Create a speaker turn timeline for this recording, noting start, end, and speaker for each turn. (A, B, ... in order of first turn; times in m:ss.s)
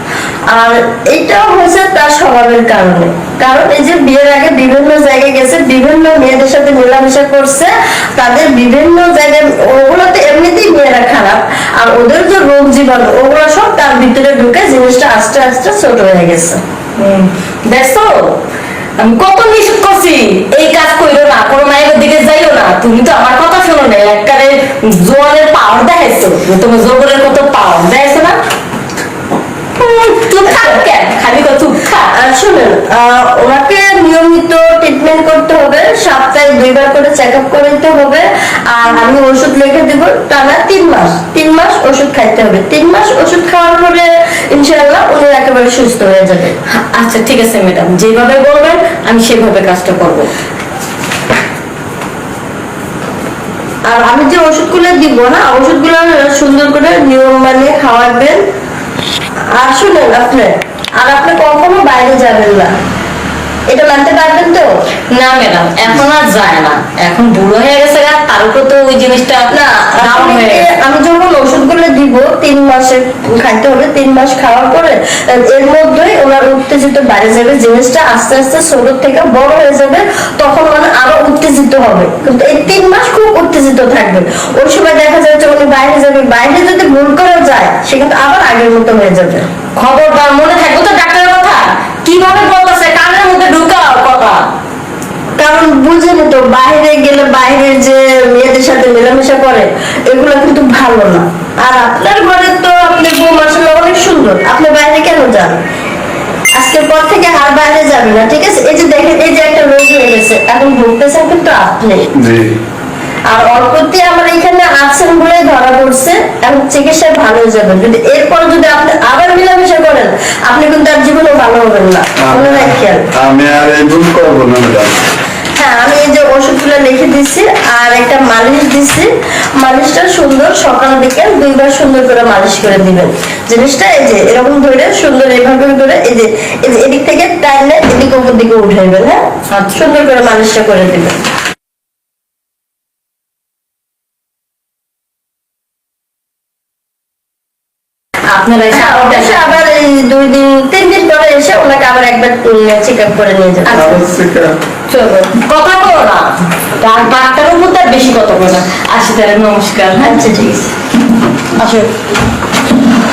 0:00.5-0:16.6 A
0:17.0-0:18.4 B
0:19.0-0:28.4 B
0:29.8-0:32.1 B
0:30.5-0:30.8 A
0:32.1-0:46.6 A
0:46.7-0:50.3 B
0:53.9-0:58.4 A
0:59.6-1:02.7 A
1:03.7-1:04.7 A
1:05.1-1:10.7 B
1:09.5-1:29.5 A
1:29.8-1:34.4 B
1:35.4-1:45.6 A
1:46.6-1:52.1 A
1:52.1-1:52.6 C
1:53.3-2:03.1 A
2:02.2-2:05.0 C
2:05.6-2:21.2 A
2:19.5-2:19.8 B
2:28.3-2:29.6 B
2:28.7-2:34.0 A
2:33.7-2:34.5 C
2:34.9-2:36.3 B
2:36.8-2:40.2 B
2:40.0-2:40.7 A
2:41.6-2:41.9 B